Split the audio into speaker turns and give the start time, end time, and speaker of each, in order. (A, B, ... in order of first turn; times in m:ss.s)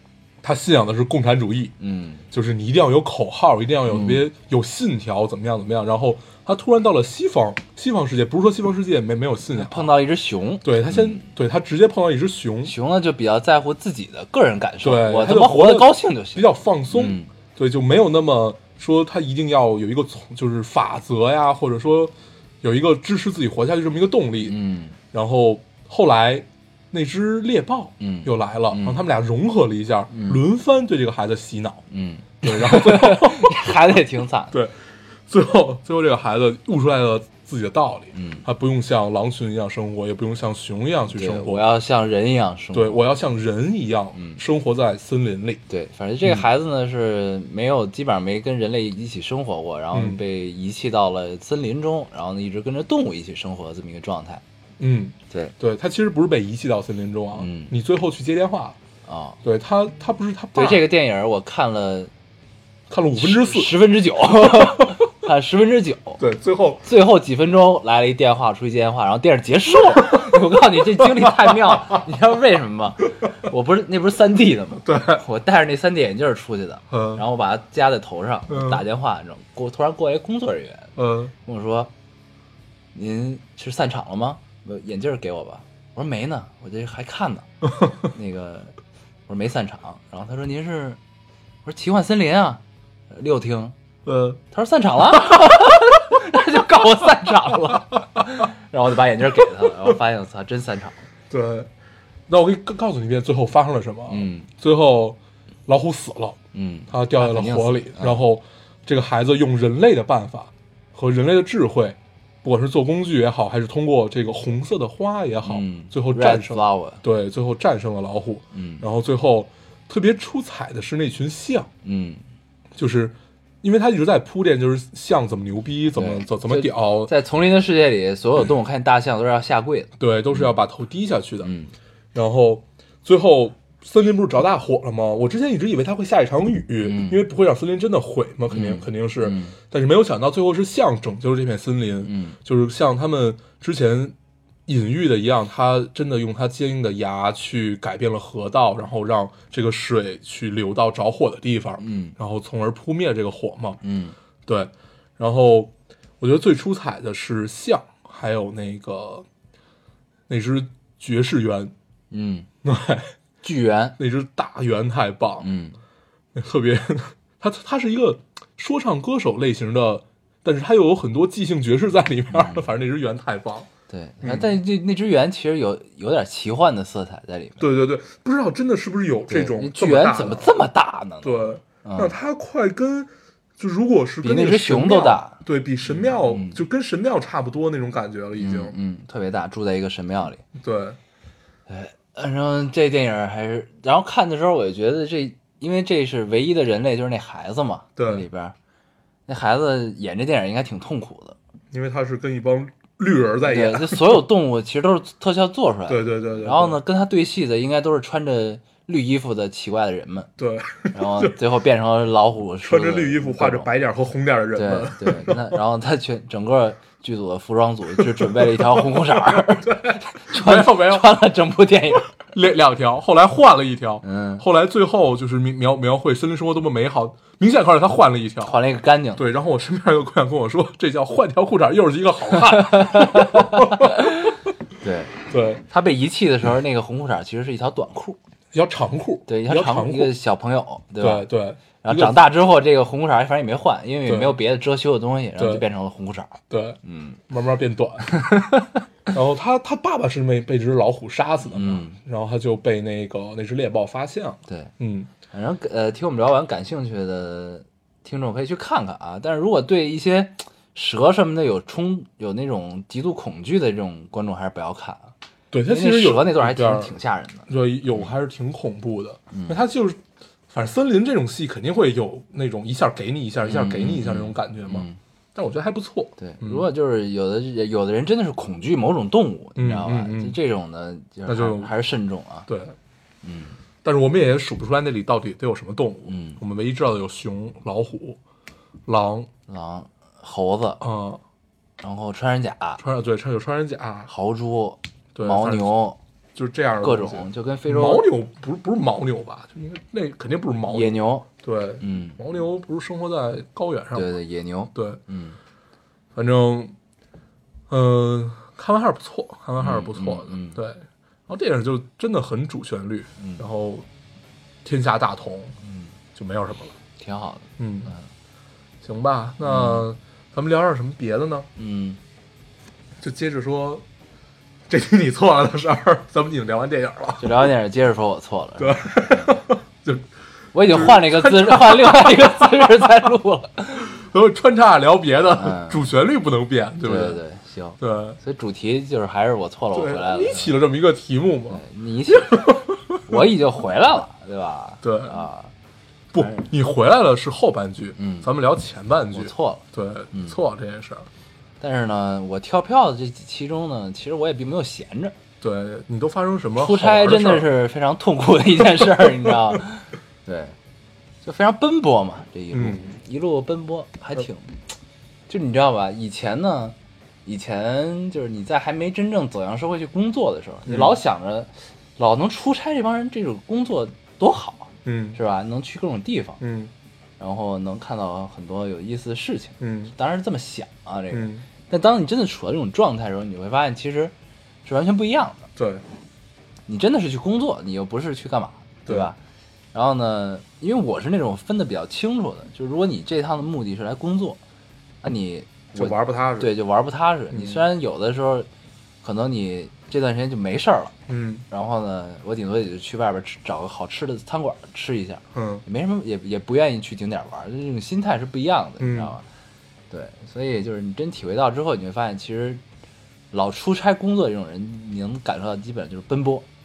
0:00.4-0:01.7 A
0:01.8-0:02.2 B
0:02.3-0:09.9 A
0:03.9-0:04.2 B
0:09.5-0:11.3 B
0:10.6-0:12.7 A
0:12.6-0:17.3 B
0:14.8-0:24.6 A
0:24.4-0:25.0 B
0:25.1-0:31.8 A
0:28.0-0:29.1 B
0:30.1-0:30.4 B
0:31.9-0:34.5 B
0:32.4-0:33.5 A
0:34.5-0:41.6 A
0:38.1-0:38.4 B
0:41.1-0:43.0 B
0:42.7-0:45.6 A
0:44.1-0:44.4 B
0:45.7-0:54.4 B
0:49.9-0:50.2 A
0:54.8-0:58.8 A
0:57.4-0:57.7 B
0:59.0-0:59.4 B
0:59.4-1:00.8 A
1:00.5-1:02.1 B
1:02.9-1:03.8 A
1:03.2-1:06.2 B
1:06.2-1:06.8 A
1:06.8-1:20.9 B
1:09.9-1:10.4 A
1:11.0-1:12.0 A
1:14.8-1:15.2 A
1:16.9-1:17.2 A
1:18.5-1:18.8 A
1:21.0-1:21.3 A
1:21.4-1:21.9 B
1:22.9-1:27.5 B
1:28.0-1:28.7 B
1:29.3-1:31.0 B
1:31.6-1:33.7 B
1:34.0-1:34.4 A
1:34.5-1:41.0 B
1:35.1-1:35.9 A
1:41.3-1:41.7 A
1:42.3-1:46.4 A
1:44.1-1:44.5 B
1:46.5-1:48.2 B
1:46.9-2:01.7 A
1:55.4-1:57.0 B
1:58.5-1:58.8 B
2:01.8-2:02.2 B
2:02.8-2:07.1 A
2:06.0-2:09.9 B
2:10.0-2:11.5 A
2:11.4-2:11.7 B
2:12.1-2:24.1 A
2:16.8-2:17.2 B
2:18.5-2:19.6 B
2:22.0-2:22.4 B
2:24.7-2:33.8 A
2:31.8-2:32.1 B
2:33.8-2:34.1 B
2:34.4-2:39.2 A
2:40.3-2:41.7 A
2:42.1-2:42.5 B
2:42.6-2:43.1 A
2:43.4-2:44.0 B
2:44.0-2:45.5 A
2:45.4-2:45.8 B
2:46.3-2:53.7 A
2:52.3-2:52.6 B
2:53.9-2:57.6 B
2:54.2-2:54.5 A
2:57.6-3:00.5 A
2:59.3-3:02.1 B
3:01.2-3:08.7 A
3:04.2-3:06.6 B
3:08.4-3:10.4 B
3:10.6-3:11.0 A
3:11.7-3:18.5 B
3:18.0-3:18.2 A
3:19.3-3:21.4 B
3:21.7-3:24.2 A
3:23.4-3:30.3 B
3:25.9-3:26.8 A
3:30.4-3:31.4 A
3:30.9-3:33.7 B
3:32.6-3:35.5 A
3:34.5-3:42.1 B
3:38.0-3:41.1 A
3:42.1-3:48.6 A
3:44.0-3:44.4 B
3:48.4-3:49.2 B
3:49.2-3:54.3 A
3:52.7-3:54.1 B
3:54.8-3:55.2 B
3:55.3-3:55.6 A
3:55.7-3:58.2 B
3:58.5-4:00.1 A
3:59.3-4:01.3 B
4:01.0-4:02.2 A
4:01.8-4:07.2 B
4:04.0-4:04.4 A
4:05.4-4:05.6 A
4:06.5-4:06.8 A
4:07.3-4:08.1 A
4:08.1-4:08.8 B
4:09.1-4:15.1 A
4:11.5-4:12.0 B
4:14.5-4:14.7 B
4:15.3-4:25.1 B
4:25.5-4:27.0 A
4:25.7-4:28.1 B
4:27.5-4:36.6 A
4:29.3-4:29.6 B
4:33.4-4:35.0 B
4:36.2-4:42.5 B
4:39.6-4:40.4 A
4:41.2-4:41.7 A
4:42.5-4:42.8 A
4:43.2-4:43.6 B
4:43.8-4:48.2 A
4:46.1-4:46.4 B
4:48.8-4:49.3 A
4:49.5-4:50.8 B
4:50.8-4:51.2 A
4:51.8-4:52.8 B
4:52.8-4:54.1 A
4:54.1-4:56.0 B
4:55.1-4:55.7 A
4:56.3-5:04.1 A
4:56.8-4:58.0 B
5:00.7-5:01.3 B
5:01.8-5:02.2 B
5:03.9-5:05.4 B
5:04.7-5:05.0 A
5:06.1-5:06.7 A
5:07.7-5:13.8 A
5:09.6-5:10.6 B
5:13.2-5:13.4 B
5:14.6-5:15.6 A
5:15.6-5:15.9 B
5:16.1-5:16.7 A
5:17.0-5:18.1 B
5:17.6-5:17.9 A
5:18.8-5:21.5 A
5:19.4-5:19.8 B
5:21.6-5:22.0 B
5:23.0-5:23.8 A
5:24.7-5:27.5 A
5:27.2-5:29.4 B
5:28.6-5:30.1 A
5:30.5-5:33.9 B
5:30.7-5:33.0 A
5:33.8-5:37.2 A
5:35.4-5:35.9 B
5:36.8-5:40.5 B
5:37.8-5:38.2 A
5:39.7-5:41.6 A
5:41.5-5:42.5 B
5:42.1-5:43.3 A
5:43.1-5:45.5 B
5:44.8-5:45.2 A
5:46.1-5:51.1 A
5:46.2-5:46.5 B
5:48.0-5:48.3 B
5:49.1-5:50.4 B
5:51.6-5:55.2 B
5:55.4-5:57.5 A
5:56.6-6:00.6 B
5:58.8-5:59.6 A
6:01.2-6:04.6 B
6:02.5-6:03.0 A
6:05.3-6:16.4 B
6:10.7-6:11.0 A
6:14.8-6:15.2 A
6:16.4-6:16.7 A
6:17.2-6:24.1 B
6:19.6-6:19.9 A
6:21.1-6:21.4 A
6:24.6-6:25.5 B
6:25.6-6:25.8 A
6:26.7-6:29.2 B
6:28.8-6:29.1 A
6:29.7-6:34.4 B
6:35.0-6:38.5 B
6:35.7-6:36.5 A
6:37.3-6:37.6 A
6:39.0-6:40.9 B
6:41.1-6:41.4 A
6:41.5-6:49.2 B
6:45.3-6:45.6 A
6:48.8-6:49.2 A
6:49.9-6:52.6 B
6:53.3-6:56.4 B